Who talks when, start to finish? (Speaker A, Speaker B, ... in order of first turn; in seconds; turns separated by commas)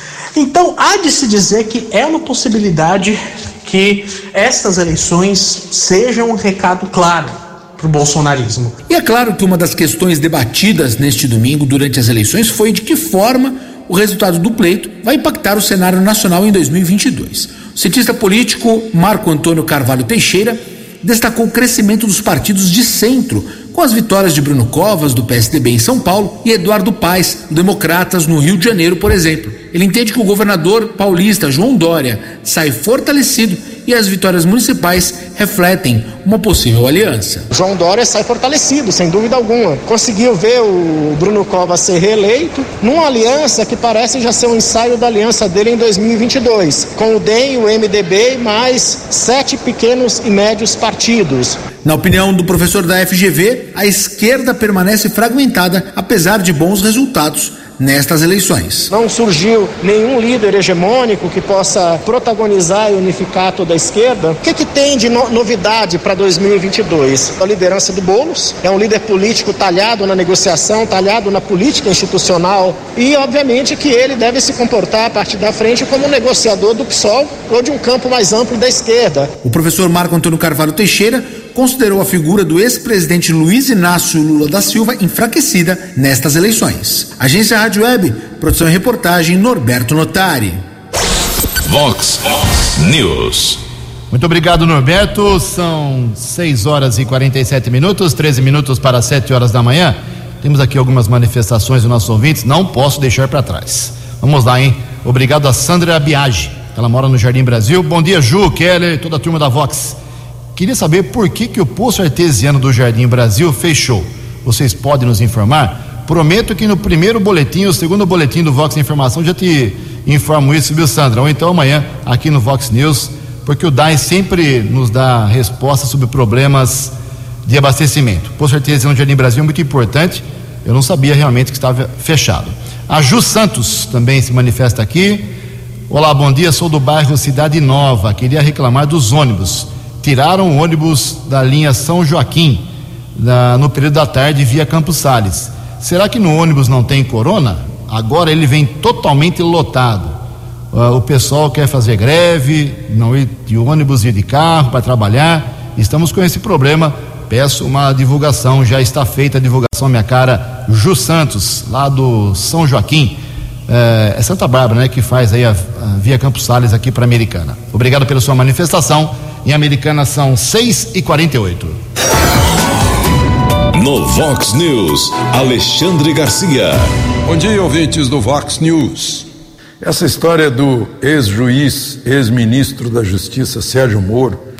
Speaker A: 0.3-8.8, Speaker B: 8.9-37.5, Speaker C: 37.5-51.6, Speaker B: 51.8-58.9, Speaker C: 58.9-79.3, Speaker B: 79.4-90.6, Speaker D: 91.7-93.6, Speaker E: 94.1-110.0, Speaker E: 110.5-126.9, Speaker E: 127.4-135.3, Speaker E: 135.9-142.6, Speaker E: 143.2-150.2, Speaker E: 150.7-171.8, Speaker D: 173.7-176.9, Speaker F: 177.2-179.3, Speaker F: 179.8-184.4